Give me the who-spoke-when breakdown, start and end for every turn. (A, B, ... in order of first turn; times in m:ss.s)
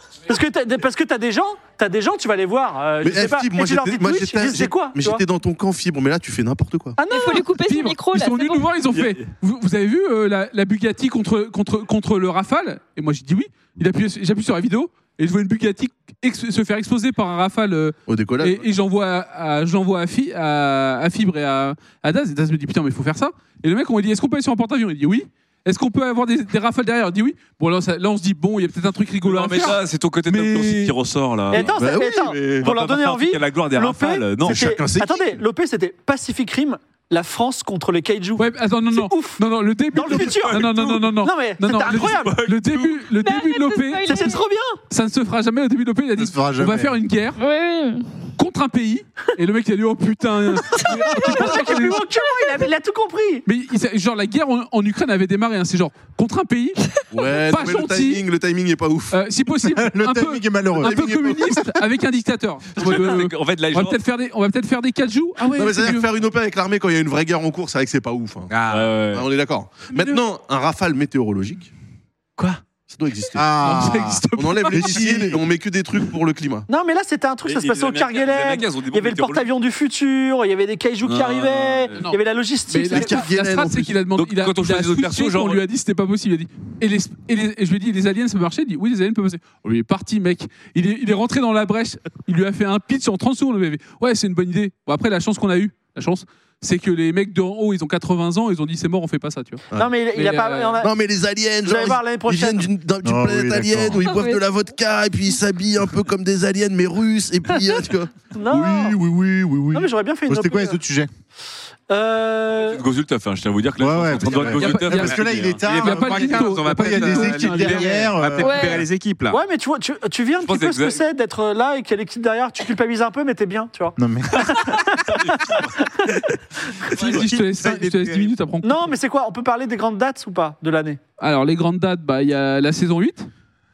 0:00.3-0:05.2 A
0:03.0-0:07.0 B
0:07.0-0:07.5 A
0:07.1-0:08.8 C
0:07.6-0:31.0 D
0:08.9-0:09.3 E
0:18.1-0:18.7 B
0:29.2-0:31.8 E
0:31.5-0:42.4 A
0:31.6-0:32.7 B
0:32.6-0:34.8 E
0:34.4-0:35.4 B
0:38.4-0:44.3 D
0:40.2-0:40.9 E
0:41.9-0:43.0 E
0:43.2-0:44.5 C
0:44.1-0:44.8 A
0:44.9-0:47.4 D
0:46.2-0:47.0 F
0:47.4-0:48.3 C
0:48.4-0:52.0 D
0:50.8-0:53.4 A
0:51.4-0:52.6 C
0:53.5-0:56.8 D
0:57.1-0:59.2 B
0:57.3-0:58.2 D
0:59.1-1:06.1 D
0:59.7-1:01.8 F
1:00.8-1:01.6 B
1:02.8-1:04.0 E
1:05.5-1:08.5 B
1:08.5-1:09.0 G
1:08.7-1:09.3 E
1:09.1-1:11.7 B
1:12.4-1:12.6 E
1:12.9-1:13.7 B
1:13.4-1:14.2 F
1:13.6-1:15.3 D
1:14.3-1:16.7 B
1:14.8-1:15.2 F
1:16.7-1:23.2 A
1:17.5-1:19.5 E
1:21.0-1:22.1 E
1:22.7-1:40.9 D
1:22.9-1:24.0 B
1:24.2-1:25.6 E
1:39.7-1:40.0 B
1:39.7-1:40.9 A
1:40.8-1:49.9 B
1:41.6-1:42.7 A
1:43.0-1:44.0 F
1:44.0-1:44.4 C
1:48.3-1:49.0 A
1:49.7-1:50.8 A
1:50.3-1:51.1 F
1:51.9-1:52.8 A
1:52.5-1:55.7 E
1:53.8-1:58.8 F
1:54.6-1:55.2 D
1:54.9-1:59.4 G
1:55.7-1:58.0 D
1:58.4-1:58.8 C
1:59.3-2:06.1 A
2:00.4-2:01.0 E
2:04.0-2:04.4 F
2:04.4-2:05.8 E
2:06.8-2:08.4 G
2:07.0-2:08.9 D
2:08.6-2:11.0 A
2:11.2-2:13.3 D